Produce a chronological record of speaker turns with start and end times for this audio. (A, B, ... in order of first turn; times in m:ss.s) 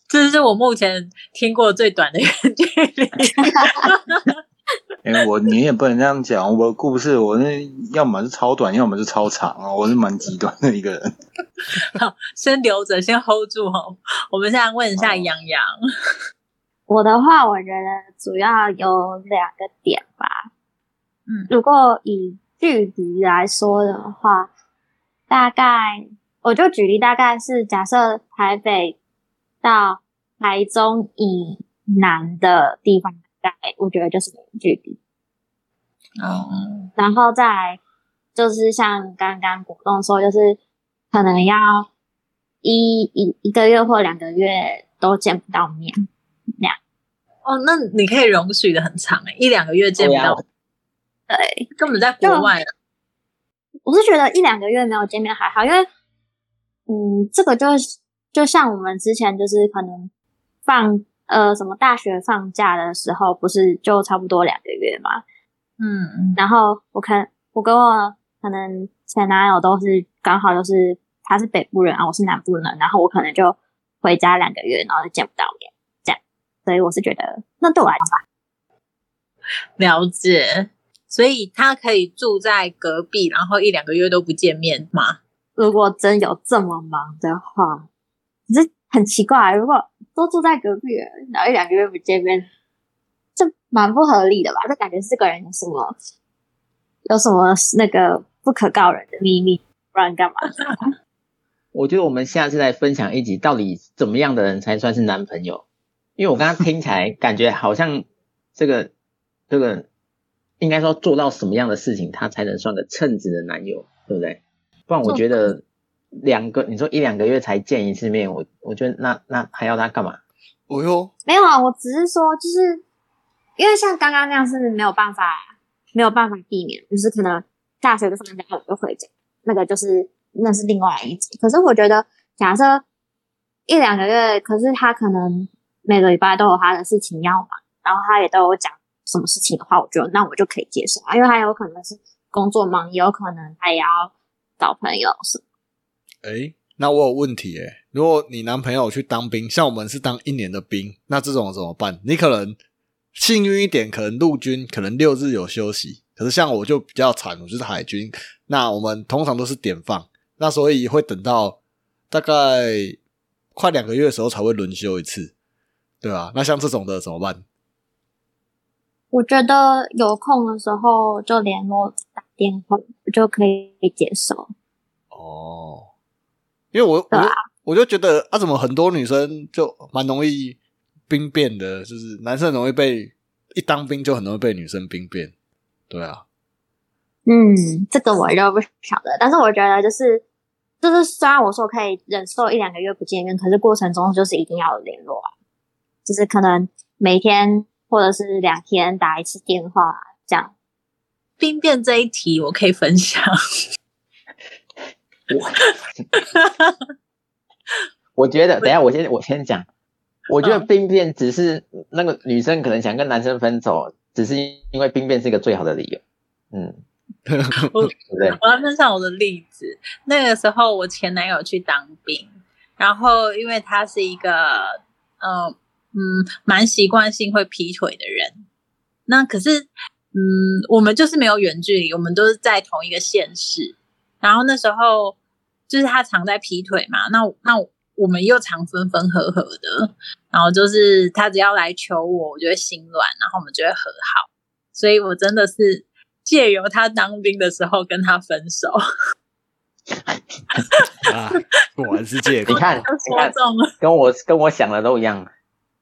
0:00.1-0:04.4 A
0:05.0-0:11.1 B
0:11.8-0:15.7 A
0:15.0-0:15.3 B
0:16.9-0:20.5 C
0:21.5-0:24.5 C
0:25.3-0:29.0 C
0:29.6-0:35.0 C
0:36.2-0:36.9 A
0:37.0-0:37.8 C
0:38.4-0:40.6 C
0:41.1-0:41.9 C
0:42.6-0:46.0 C
0:47.5-0:50.4 A
0:50.0-0:50.4 D
0:51.3-0:51.7 C
0:51.8-0:52.7 A
0:52.2-0:52.5 C
0:53.8-0:55.9 C
0:56.9-1:00.1 C
1:00.7-1:05.2 C
1:05.8-1:06.4 A
1:06.4-1:18.2 C
1:19.8-1:25.2 A
1:25.6-1:27.9 C
1:28.5-1:32.5 C
1:33.4-1:36.0 C
1:37.1-1:40.9 C
1:41.7-1:45.6 D
1:46.2-1:48.9 D
1:49.5-1:49.9 D
1:50.6-1:55.6 D
1:56.2-2:00.2 D
2:00.7-2:01.1 E
2:01.3-2:02.8 C
2:03.6-2:12.8 C
2:13.7-2:25.4 C
2:26.2-2:32.6 E
2:33.2-2:41.6 E
2:42.1-2:43.0 E
2:43.6-2:45.3 E
2:46.0-2:47.4 E
2:49.1-2:54.5 C
2:55.1-2:55.9 E
2:56.7-3:05.3 E
3:05.9-3:06.2 E
3:07.3-3:10.2 C
3:10.8-3:15.3 C
3:16.1-3:20.5 C
3:21.4-3:23.3 A
3:25.3-3:26.0 D
3:25.6-3:26.7 A
3:28.2-3:29.7 D
3:30.3-3:36.0 D
3:30.4-3:30.7 A
3:36.5-3:36.8 D
3:37.3-3:37.9 E
3:37.6-3:48.4 A
3:38.1-3:38.4 D
3:49.1-3:55.2 A
3:55.7-4:08.8 A
4:09.9-4:10.2 D
4:11.1-4:12.9 E
4:12.4-4:13.7 A
4:12.5-4:15.3 D